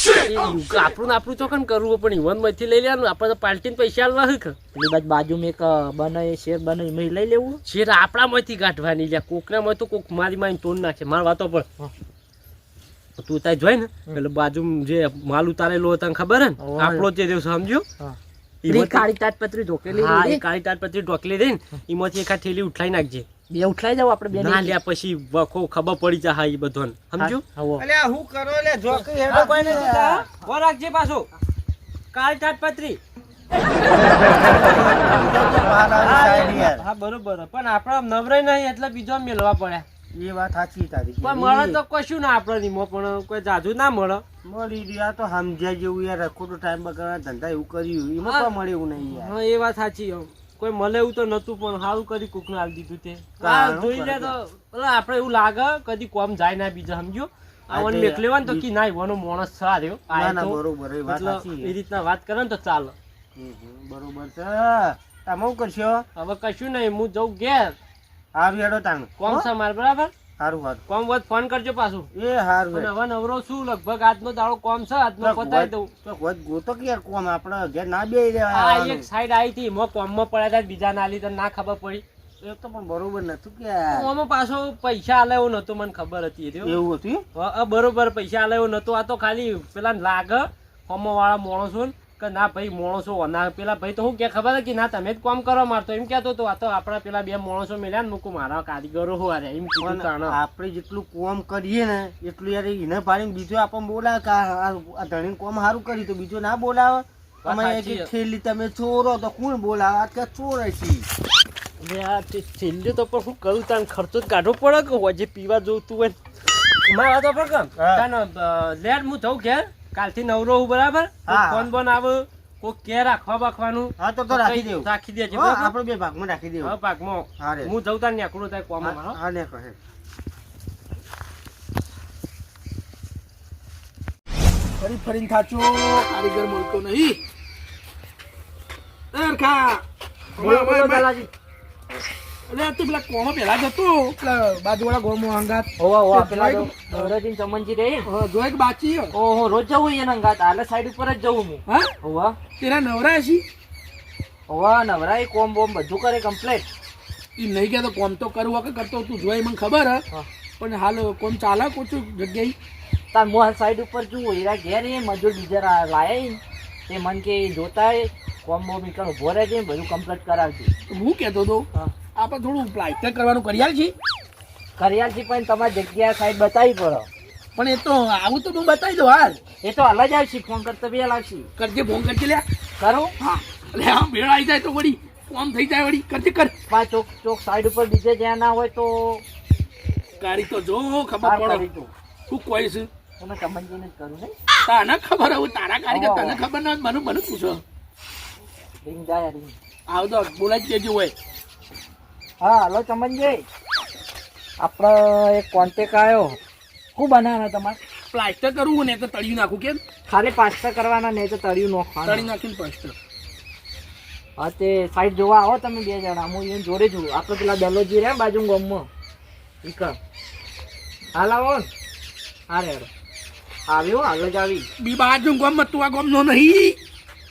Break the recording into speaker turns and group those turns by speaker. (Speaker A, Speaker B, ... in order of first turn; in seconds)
Speaker A: 0.2-4.6, 7.6-11.7, 13.2-17.9, 18.6-19.1, 19.9-23.3, 24.4-27.4, 28.9-31.3, 32.1-33.0, 34.6-39.9, 41.2-44.2, 48.2-48.5, 49.1-63.0, 66.2-67.8, 69.2-70.1, 70.9-72.1, 72.7-75.9, 78.5-82.0, 83.9-86.8, 87.3-100.4, 107.4-108.1, 111.8-116.2, 116.8-125.7, 126.6-129.2
Speaker B: 4.7-7.6, 16.6-17.0, 18.0-20.4, 23.5-24.7, 27.6-27.8, 140.4-141.3, 145.8-148.1, 149.1-152.4, 154.5-156.7, 163.1-170.7, 174.8-177.1, 179.6-181.5, 182.8-183.1, 186.7-189.2, 191.2-191.9, 193.2-194.3, 195.9-196.4, 198.8-199.6, 202.4-203.4, 204.6-206.4, 207.0-207.8, 210.1-212.3, 214.4-218.9, 219.6-220.0, 221.2-221.7, 222.5-222.9, 223.7-224.7
Speaker C: 27.2-30.2, 33.9-36.9, 40.1-41.8, 44.4-49.4, 53.4-54.3, 57.7-58.6, 60.1-61.8, 63.4-66.0, 68.3-69.5, 70.4-70.8, 72.1-72.9, 75.2-79.1, 82.4-84.1, 86.6-87.2, 99.8-111.1, 117.8-118.0, 121.3-121.7, 124.0-126.8, 127.4-127.7, 128.8-129.8
Speaker D: 134.8-137.2, 139.1-139.8, 140.4-141.1, 142.5-147.1, 148.0-149.1, 151.7-151.9, 152.6-153.4, 157.4-160.0, 160.6-162.5, 170.9-173.9, 177.6-179.4, 181.6-182.4, 183.2-186.5, 190.2-191.7, 192.3-192.9, 194.7-197.6, 199.9-201.1, 208.1-209.8, 212.0-212.9, 224.8-226.8